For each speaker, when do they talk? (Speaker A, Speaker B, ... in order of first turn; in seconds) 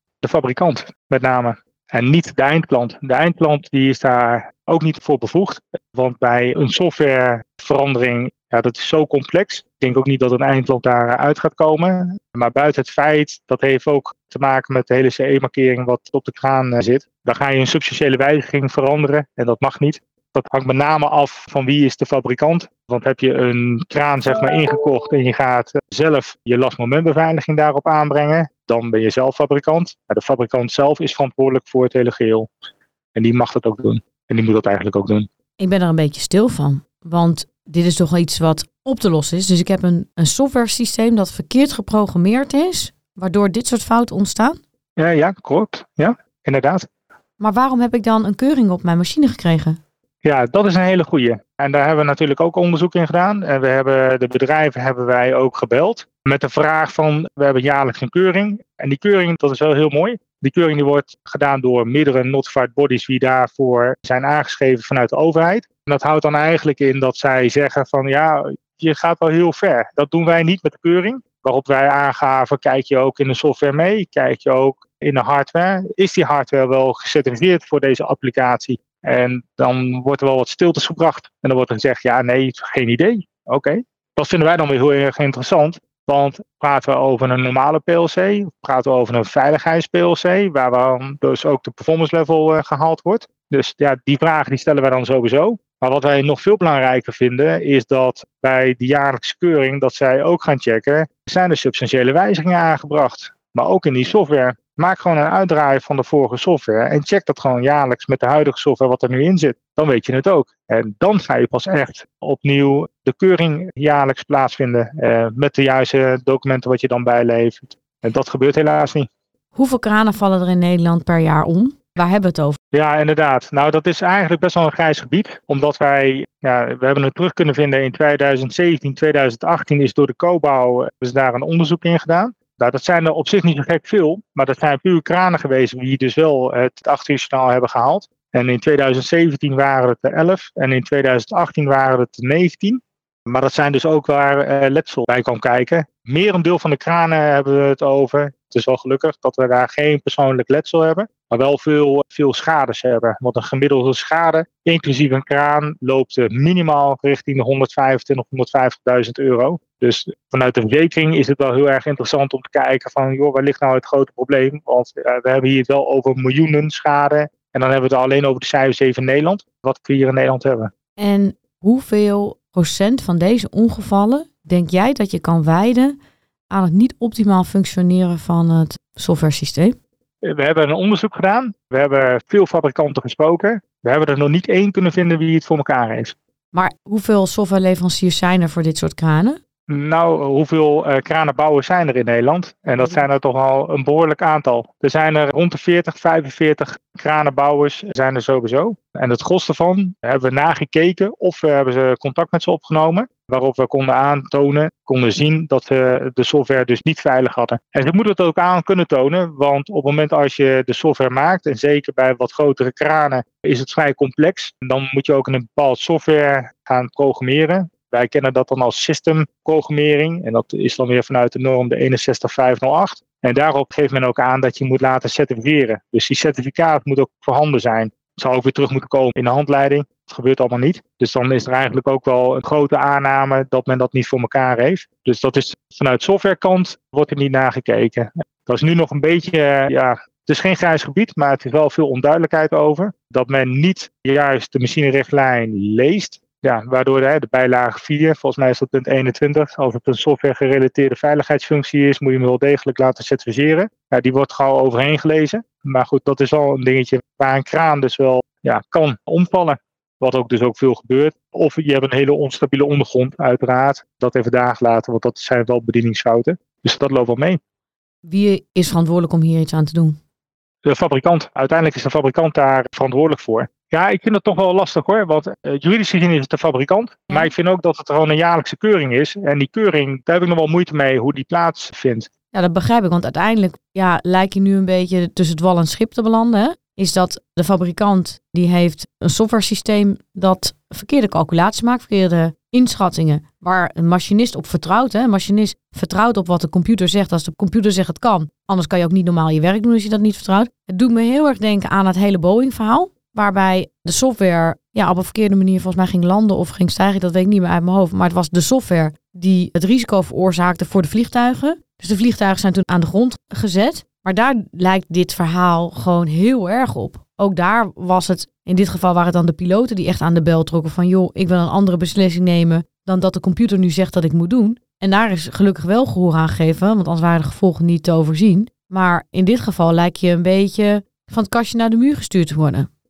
Speaker A: 0.2-32.5, 33.1-35.3, 45.0-46.9, 50.2-119.1, 122.7-170.7, 180.2-186.2, 189.7-267.4, 270.6-282.1
Speaker B: 35.6-44.6, 47.4-49.8, 119.5-122.6, 171.0-176.0, 176.5-179.8, 186.5-189.4, 268.1-270.0, 282.3-332.7